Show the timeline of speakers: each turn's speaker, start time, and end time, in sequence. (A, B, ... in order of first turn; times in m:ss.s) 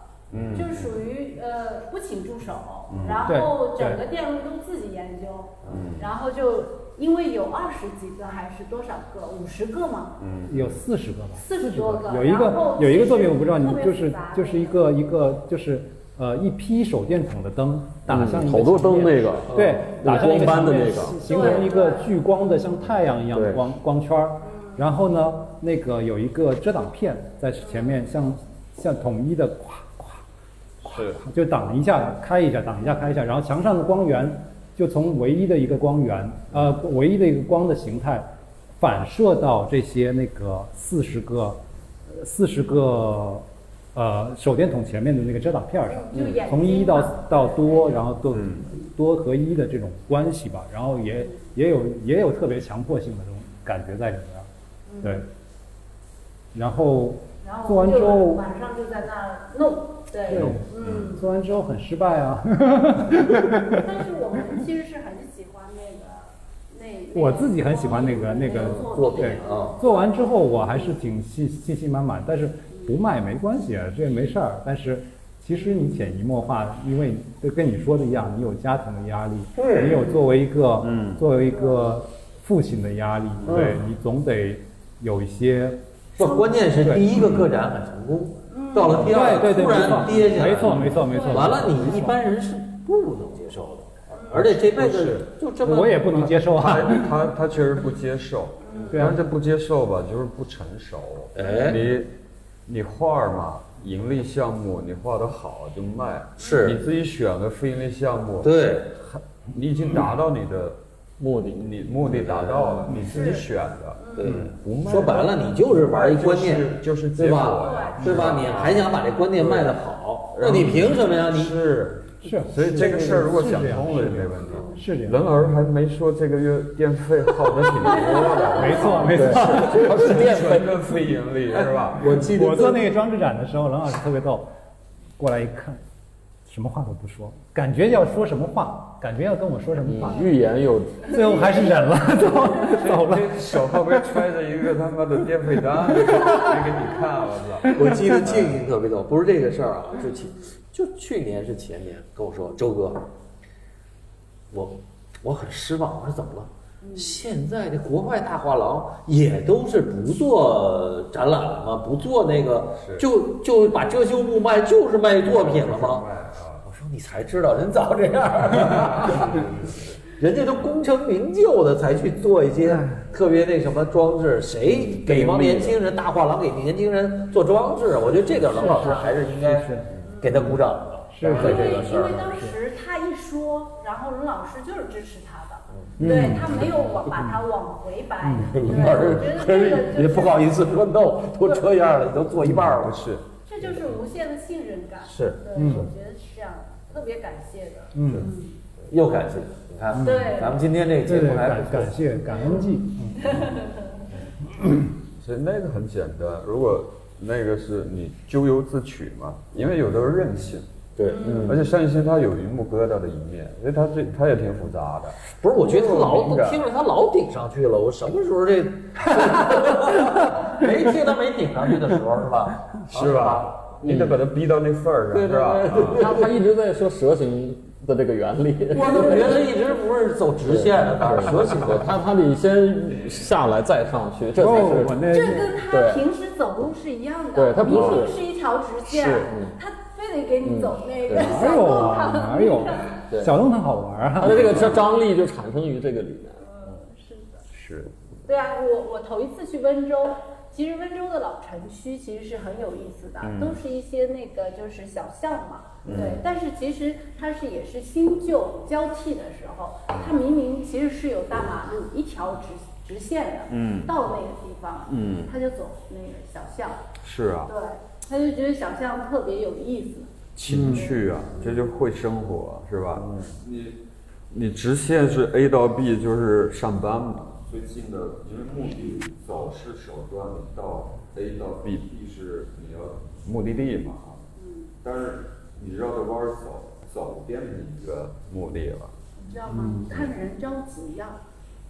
0:00.3-0:01.0 A
0:00.5-0:10.2 B
0:02.9-0:03.3 A
0:03.3-0:04.0 C
0:05.7-0:06.1 A
0:10.2-0:10.8 A
0:10.5-0:30.2 C
0:11.4-0:14.9 B
0:18.1-0:21.4 D
0:20.1-0:22.1 B
0:23.3-0:23.6 D
0:24.4-0:24.8 B
0:27.6-0:27.9 B
0:30.8-0:31.2 A
0:30.8-0:54.5 C
0:45.9-0:47.9 B
0:48.3-0:48.6 A
0:54.9-0:55.2 B
0:55.0-0:55.3 C
0:56.5-0:58.4 C
0:57.4-1:01.3 B
1:00.3-1:03.8 C
1:00.3-1:01.1 A
1:03.7-1:10.7 B
1:07.1-1:27.2 C
1:08.6-1:09.8 E
1:19.5-1:20.2 E
1:20.8-1:21.2 A
1:23.4-1:23.8 A
1:23.5-1:23.8 E
1:26.2-1:36.2 E
1:28.5-1:29.6 B
1:28.9-1:32.2 C
1:30.8-1:32.1 B
1:34.1-1:34.4 B
1:34.3-1:35.3 A
1:35.6-1:37.2 C
1:36.1-1:42.1 A
1:38.6-1:39.1 B
1:38.9-1:39.2 C
1:41.3-1:41.8 E
1:42.6-1:50.8 A
1:46.4-1:46.8 E
1:48.4-1:48.9 E
1:51.2-1:53.0 D
1:51.5-1:59.8 A
1:53.0-1:53.4 E
1:53.1-1:53.4 B
1:54.0-1:54.4 B
1:54.2-2:01.6 E
1:57.6-1:58.8 B
2:00.3-2:12.3 A
2:02.2-2:05.3 C
2:08.0-2:09.0 B
2:08.5-2:10.2 C
2:09.0-2:10.9 D
2:11.5-2:12.9 D
2:12.2-2:14.5 C
2:15.2-2:15.8 C
2:16.4-2:20.3 C
2:19.8-2:21.4 D
2:21.0-2:23.4 C
2:22.6-2:28.4 A
2:27.7-2:33.1 E
2:34.5-2:46.1 E
2:36.8-2:37.2 B
2:42.8-2:43.1 A
2:45.2-2:46.6 A
2:46.6-2:49.5 E
2:48.6-2:50.0 A
2:50.1-3:02.4 E
2:54.6-2:55.8 D
2:58.5-3:00.6 C
3:00.0-3:00.4 B
3:01.1-3:02.5 C
3:01.2-3:10.6 B
3:05.7-3:06.0 E
3:06.0-3:06.6 A
3:08.2-3:08.8 C
3:08.5-3:13.0 E
3:12.4-3:13.2 A
3:13.4-3:18.6 B
3:15.0-3:15.4 E
3:15.5-3:15.9 C
3:17.9-3:18.3 C
3:18.9-3:22.1 E
3:19.9-3:20.3 C
3:20.0-3:20.6 B
3:21.0-3:23.5 C
3:22.4-3:24.0 B
3:25.1-3:30.7 A
3:31.0-3:31.6 E
3:31.1-3:31.5 B
3:31.2-3:31.6 D
3:31.4-3:36.6 A
3:35.3-3:43.7 E
3:42.9-3:46.2 A
3:43.8-3:44.2 D
3:45.1-3:49.4 D
3:48.7-3:52.0 E
3:50.4-3:56.0 D
3:51.3-3:51.6 A
3:54.3-3:55.6 C
3:55.0-4:03.0 B
3:57.3-3:58.3 D
3:57.7-3:58.1 A
3:58.8-3:59.3 A
3:59.3-3:59.6 D
4:00.4-4:01.8 D
4:01.1-4:04.8 C
4:03.1-4:03.3 D
4:04.2-4:06.4 D
4:04.3-4:04.7 A
4:06.4-4:07.4 B
4:07.5-4:07.9 A
4:08.2-4:26.9 B
4:13.2-4:13.6 A
4:15.8-4:16.2 A
4:23.5-4:23.9 A
4:24.9-4:25.3 A
4:27.0-4:27.5 A
4:27.4-4:31.0 B
4:30.4-4:33.8 A
4:30.5-4:30.8 C
4:34.3-4:44.2 A
4:44.4-4:44.7 B
4:44.8-4:49.0 A
4:49.2-4:51.2 B
4:49.5-4:49.9 C